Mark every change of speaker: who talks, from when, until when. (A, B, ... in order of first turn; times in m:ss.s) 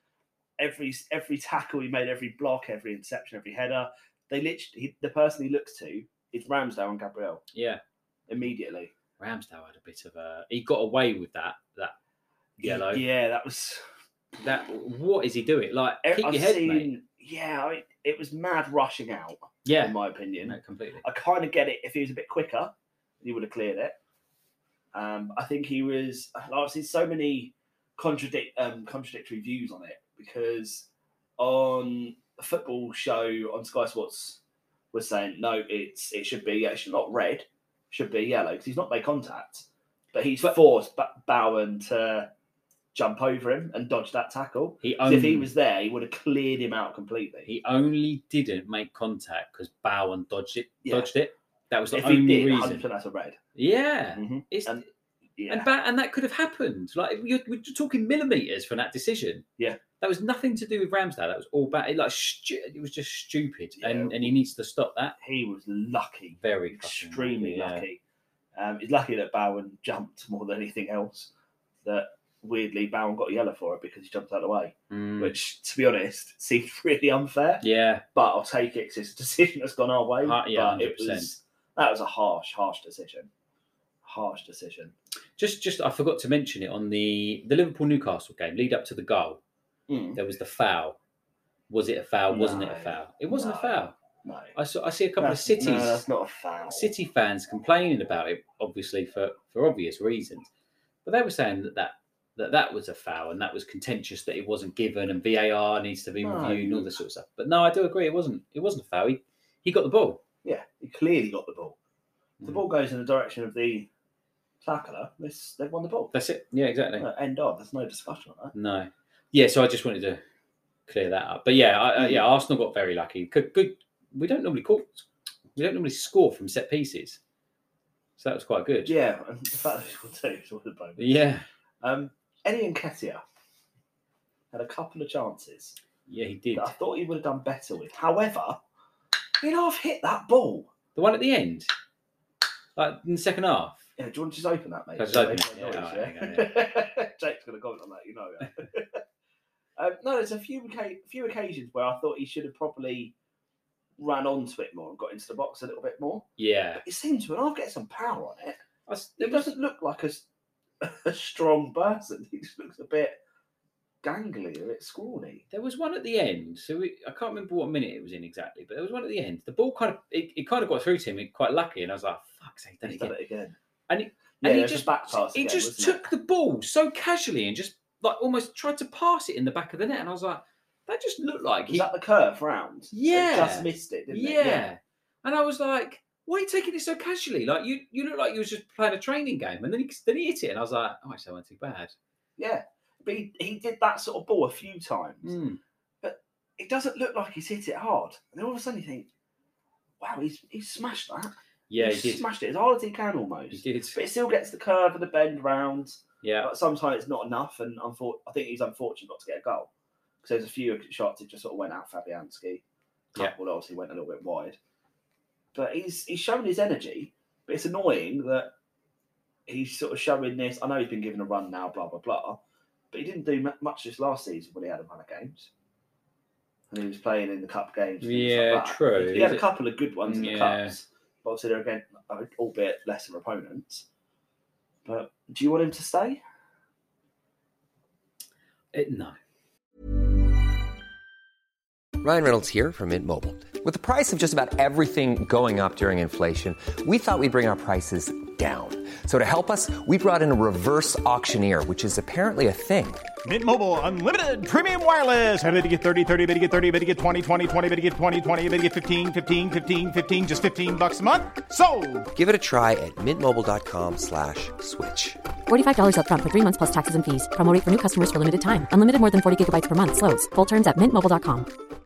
0:00.6-0:07.4 A
0:07.5-0:07.8 B
0:08.3-0:08.9 A
0:09.2-0:12.0 B
0:12.6-0:13.0 B
0:12.6-0:13.8 A
0:14.4-0:16.9 B
0:16.1-0:24.0 A
0:19.6-0:21.0 B
0:24.9-0:30.9 A
0:31.4-0:34.4 A
0:34.9-0:42.3 A
0:42.9-0:47.5 A
0:44.8-0:45.5 B
0:47.5-0:52.8 B
0:51.9-0:53.4 A
0:53.6-0:54.8 B
0:54.2-0:54.8 A
0:55.4-0:55.7 A
0:55.5-0:59.4 B
1:00.0-1:05.2 B
1:03.8-1:04.3 A
1:05.2-1:08.0 A
1:06.4-1:07.8 B
1:08.6-1:11.3 A
1:11.8-1:17.6 A
1:14.9-1:15.4 B
1:17.6-1:18.0 B
1:18.1-1:23.3 A
1:20.2-1:21.3 B
1:24.0-1:24.9 A
1:25.4-1:29.4 B
1:29.9-1:30.2 A
1:30.2-1:31.0 B
1:31.7-1:34.0 B
1:32.3-1:34.5 A
1:34.6-1:36.0 B
1:35.2-1:36.9 A
1:36.7-1:40.5 B
1:41.0-1:50.2 B
1:46.2-1:46.9 A
1:50.4-1:51.8 A
1:52.4-1:53.9 A
1:54.6-1:56.1 A
1:56.1-1:57.1 B
1:57.0-1:58.5 A
1:58.5-2:00.2 B
2:00.9-2:05.0 B
2:02.0-2:02.2 A
2:05.6-2:07.2 B
2:08.2-2:09.0 B
2:08.9-2:11.2 A
2:11.0-2:11.5 B
2:11.8-2:13.2 A
2:14.5-2:15.8 A
2:16.1-2:16.7 B
2:16.6-2:18.6 A
2:19.4-2:20.7 A
2:21.0-2:21.7 B
2:22.8-2:23.9 B
2:24.0-2:29.0 A
2:25.0-2:26.6 B
2:29.8-2:33.1 A
2:34.0-2:36.3 A
2:36.4-2:36.8 B
2:36.8-2:38.6 A
2:38.9-2:39.5 B
2:39.2-2:40.3 A
2:40.8-2:43.2 A
2:44.0-2:45.4 A
2:45.5-2:53.1 B
2:52.8-2:53.6 A
2:53.9-3:01.9 B
2:54.4-2:56.1 A
3:01.7-3:04.6 A
3:02.9-3:11.9 B
3:12.4-3:15.3 A
3:15.2-3:15.6 B
3:16.0-3:19.1 A
3:20.0-3:29.7 A
3:21.7-3:22.2 B
3:23.5-3:24.0 B
3:26.2-3:26.5 B
3:30.2-3:32.6 A
3:33.1-3:34.6 A
3:35.5-3:38.5 A
3:39.5-3:42.4 A
3:42.9-3:45.5 A
3:46.7-3:53.8 A
3:48.0-3:49.4 B
3:50.0-3:50.8 B
3:54.9-3:56.2 A
3:58.7-3:59.2 B
4:02.0-4:13.1 C
4:13.2-4:22.1 D
4:22.1-4:25.2 C
4:25.5-4:31.5 E